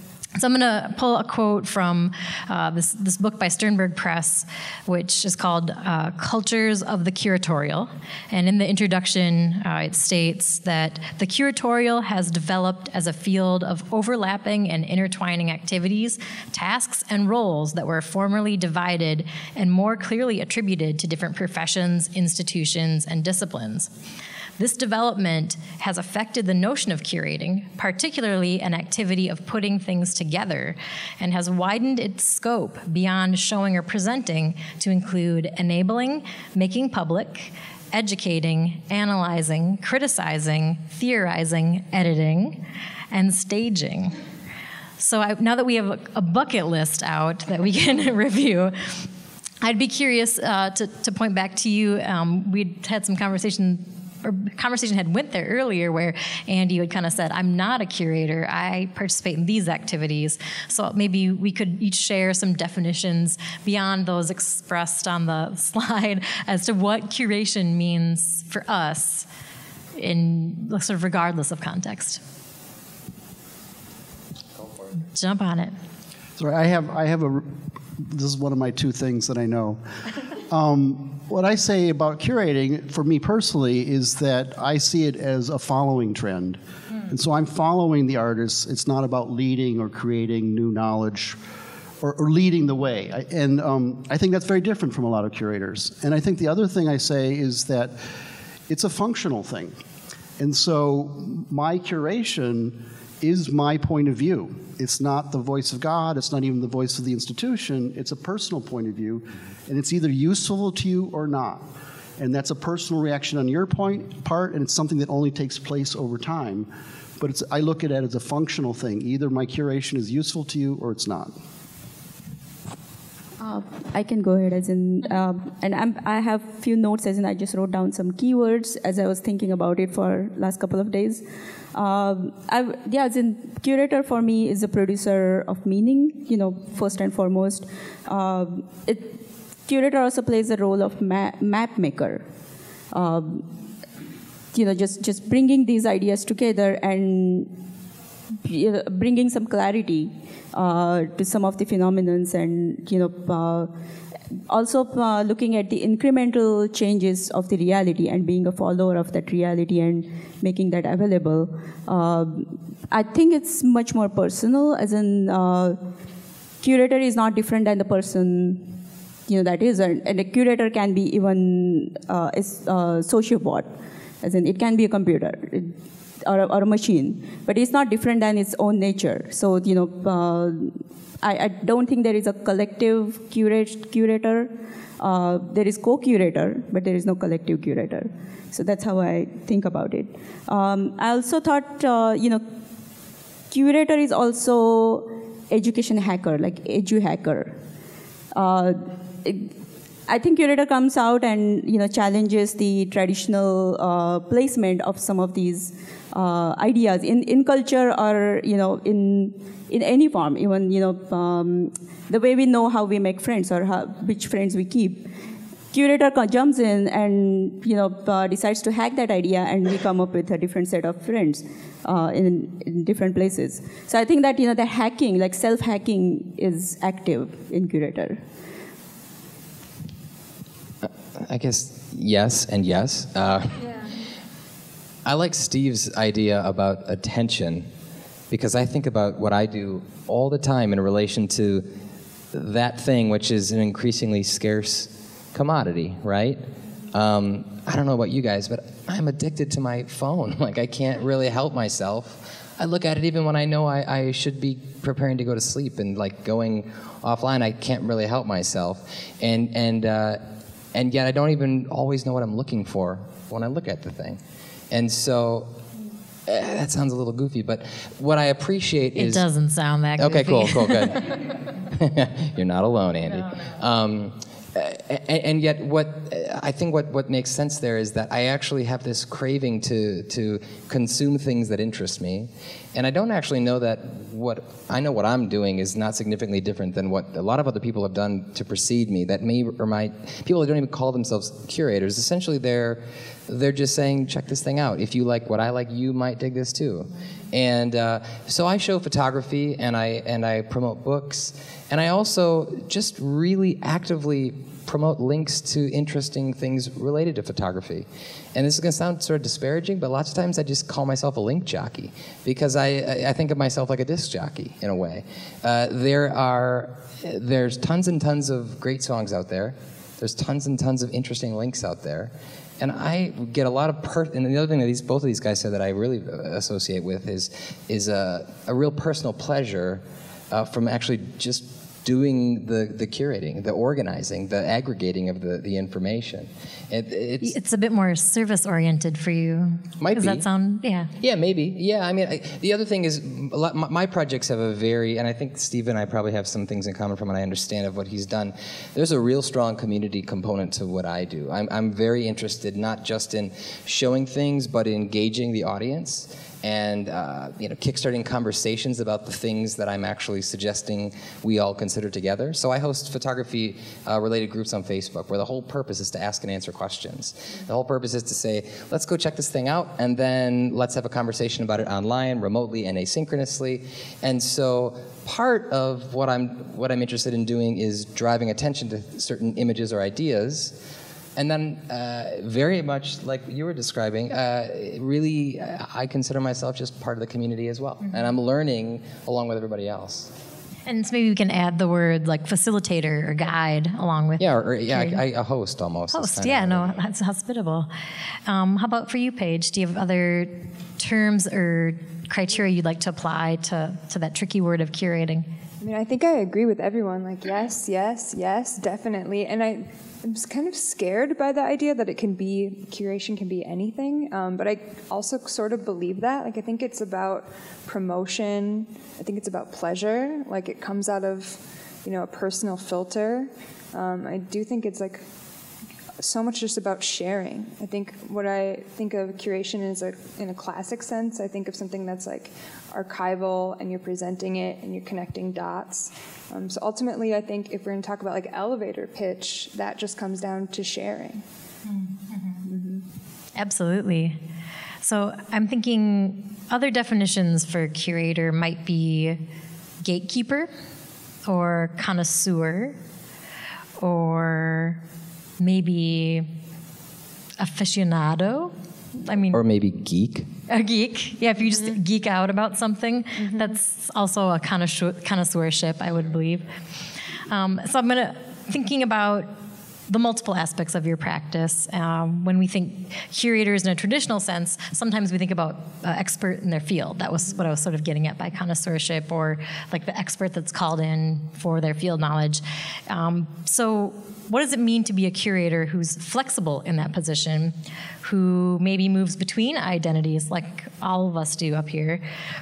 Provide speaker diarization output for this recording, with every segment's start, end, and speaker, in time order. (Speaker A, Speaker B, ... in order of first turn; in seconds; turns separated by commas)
Speaker A: 0.4-23.9, Speaker A: 24.6-44.1, Speaker A: 45.0-48.8, Speaker A: 49.6-69.3, Speaker A: 70.0-72.2, Speaker A: 75.1-75.8, Speaker B: 76.4-79.8, Speaker B: 80.4-91.4, Speaker B: 92.0-98.0, Speaker B: 98.7-99.8, Speaker B: 100.4-111.7, Speaker B: 112.2-116.7, Speaker B: 117.2-121.4, Speaker C: 123.4-142.2, Speaker C: 142.9-143.5, Speaker C: 144.5-147.5, Speaker C: 148.4-153.7, Speaker C: 154.5-165.8, Speaker C: 166.6-168.7, Speaker C: 169.3-173.7, Speaker C: 174.2-192.4, Speaker C: 193.5-197.6, Speaker C: 198.3-199.5, Speaker C: 200.1-215.1, Speaker C: 215.7-228.2, Speaker D: 230.8-233.8, Speaker D: 235.1-237.7, Speaker D: 238.3-241.7, Speaker D: 242.3-246.4, Speaker D: 246.9-260.2, Speaker D: 260.7-264.2, Speaker D: 264.7-265.5, Speaker D: 266.3-269.3, Speaker A: 269.0-271.1, Speaker D: 270.0-337.4, Speaker A: 337.2-340.9, Speaker D: 339.8-340.2, Speaker D: 341.0-380.6, Speaker D: 381.2-390.1, Speaker A: 390.7-395.0, Speaker D: 394.2-396.8, Speaker A: 395.9-397.7, Speaker A: 398.3-405.3, Speaker E: 405.6-425.0, Speaker E: 426.0-441.2, Speaker A: 441.7-442.4, Speaker E: 442.5-442.8, Speaker A: 443.4-444.2, Speaker A: 444.8-449.2, Speaker A: 449.8-450.5, Speaker A: 451.3-452.8, Speaker A: 453.8-454.8, Speaker A: 455.4-456.3, Speaker A: 457.4-459.4, Speaker D: 459.3-460.3, Speaker A: 460.5-466.5, Speaker E: 463.2-463.5, Speaker A: 467.3-469.3, Speaker A: 469.9-492.0